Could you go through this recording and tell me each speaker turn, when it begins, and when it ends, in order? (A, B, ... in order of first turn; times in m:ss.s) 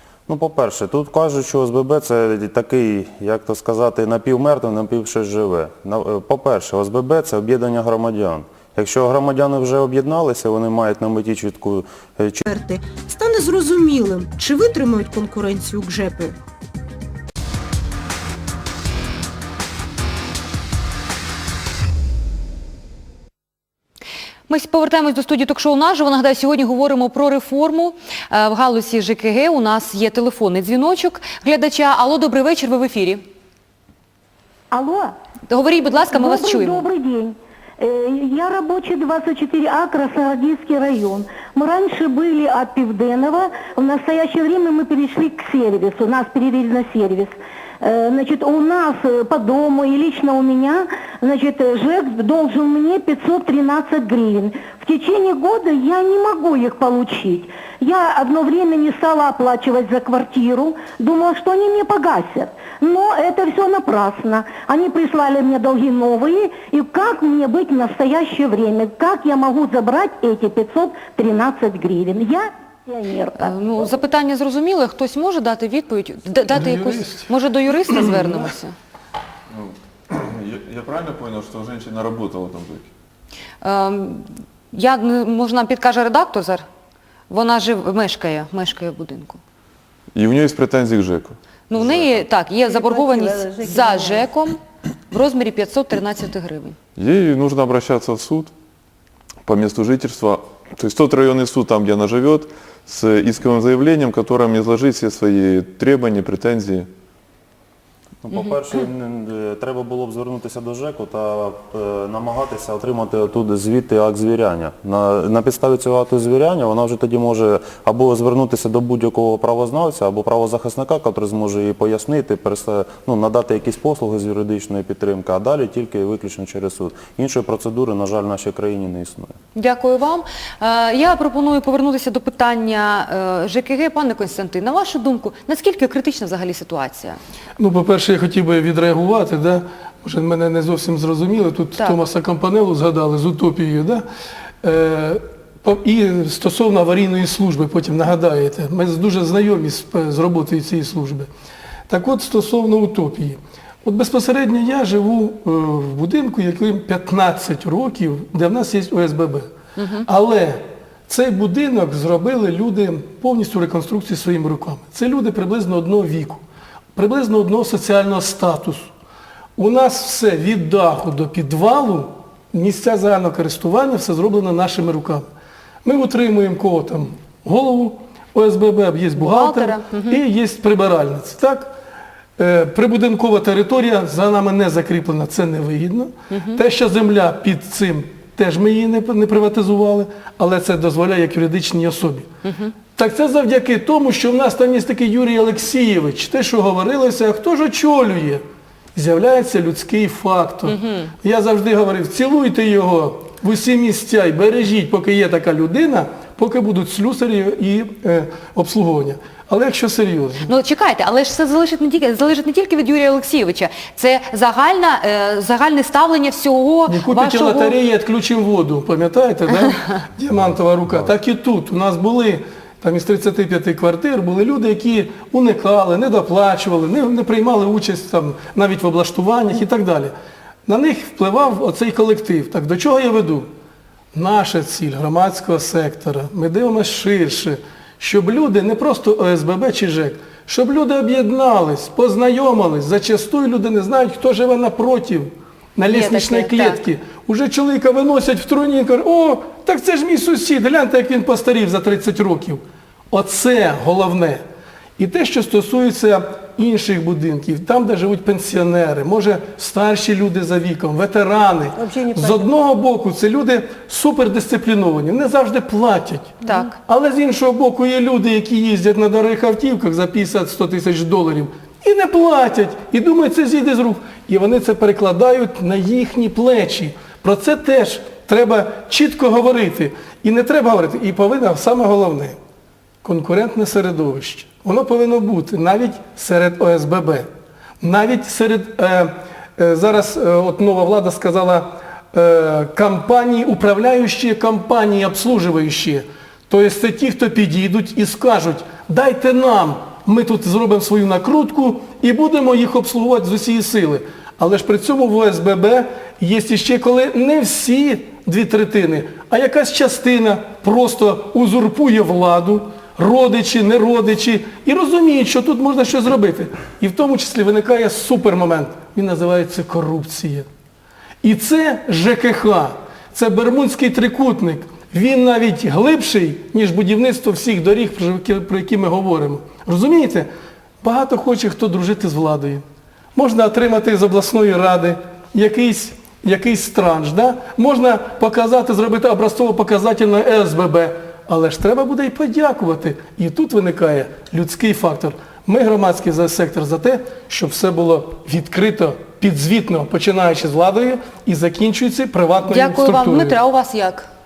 0:00.3-0:12.5 A
0:12.5-0:16.4 B
0:24.5-0:33.2 C
0:34.7-0:35.1 D
0:35.5-0:36.9 C
0:36.1-1:13.6 D
1:13.4-1:18.8 C
1:16.5-1:17.3 E
1:19.6-1:22.9 F
1:23.6-1:26.7 C
1:27.3-1:29.4 C
1:30.2-1:32.2 F
1:31.7-1:36.8 C
1:37.0-1:38.5 F
1:39.4-1:46.9 F
1:48.2-2:09.4 A
2:09.6-2:17.2 C
2:17.6-2:24.0 E
2:24.6-2:31.3 E
2:31.9-2:39.5 E
2:39.8-2:40.1 C
2:40.0-2:46.4 E
2:47.0-2:48.9 E
2:49.6-2:55.3 E
2:55.8-3:01.7 E
2:59.2-3:00.2 C
3:02.4-3:12.3 E
3:06.3-3:06.6 C
3:12.4-3:12.7 C
3:13.0-3:18.4 E
3:19.0-3:30.5 E
3:20.7-3:21.1 C
3:30.5-3:37.8 C
3:36.9-3:50.1 E
3:50.7-3:53.5 E
3:54.1-4:12.6 E
4:05.9-4:06.8 C
4:13.1-4:14.4 E
4:15.0-4:42.4 E
4:26.4-4:26.8 C
4:43.0-4:47.3 E
4:47.8-5:20.5 E
5:21.2-5:30.3 E
5:30.8-5:32.6 E
5:33.2-5:53.4 E
5:52.4-5:54.1 C